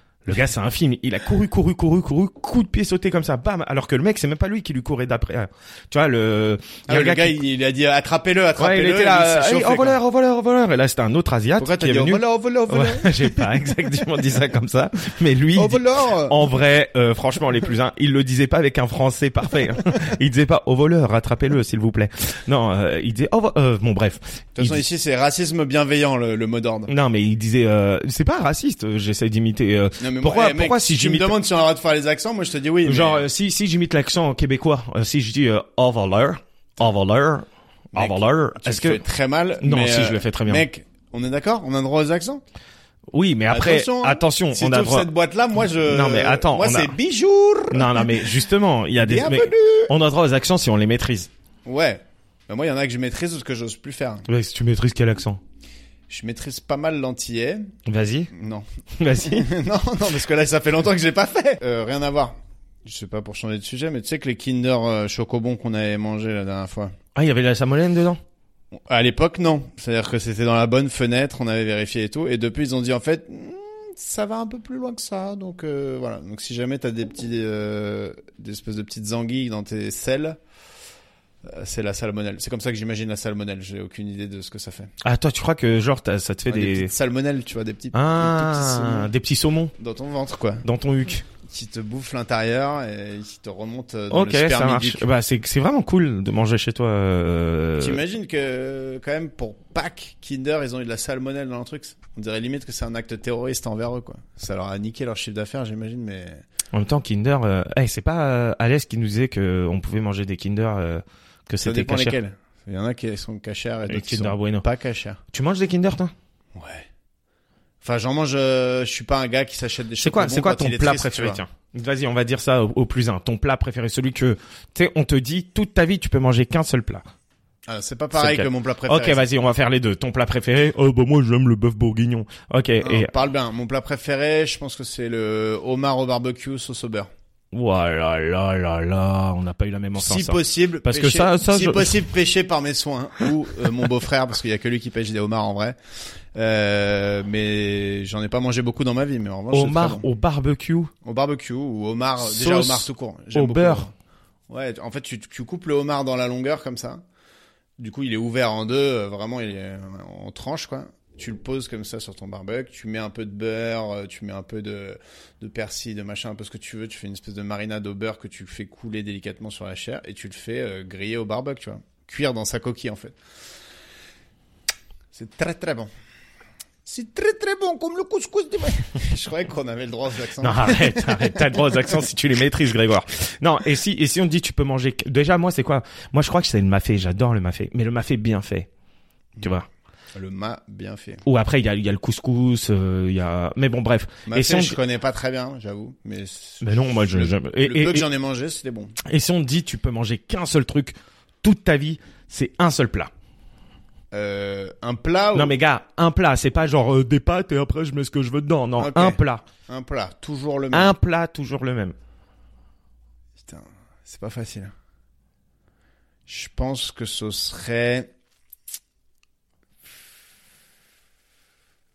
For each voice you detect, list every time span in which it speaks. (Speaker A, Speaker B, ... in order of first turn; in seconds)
Speaker A: 0.2-7.4, 8.6-24.8, 26.9-31.3, 32.8-39.0, 39.6-40.6, 43.1-45.1, 45.8-46.9, 47.7-51.3, 54.3-55.4, 57.9-58.3, 59.0-59.5, 67.1-68.2, 85.0-86.9, 87.9-89.7, 90.6-91.2, 94.1-98.0, 106.7-112.2, 113.9-114.6, 115.3-116.1, 120.0-127.0, 128.1-133.1, 137.5-142.1, 149.5-150.9, 152.2-153.9, 180.4-188.7, 189.4-189.7, 191.2-194.8, 196.6-198.1, 199.0-203.1, 205.3-209.4, 210.7-211.9
Speaker B: 6.9-10.0, 11.6-13.2, 15.5-16.4, 24.6-26.9, 30.0-33.2, 37.9-42.4, 43.5-48.3, 49.0-49.9, 51.6-54.2, 56.1-57.7, 58.3-58.6, 59.2-66.9, 68.7-80.4, 81.4-84.9, 86.5-89.1, 89.8-90.6, 91.4-95.0, 97.8-106.4, 111.6-115.2, 116.5-116.9, 117.8-121.4, 127.7-129.2, 132.8-137.1, 139.9-145.8, 146.3-150.0, 151.0-153.9, 154.5-157.0, 157.8-173.2, 175.1-175.9, 176.8-181.6, 190.1-191.2, 194.3-198.9, 204.1-205.5, 208.8-210.9, 213.4-214.7, 216.3-218.1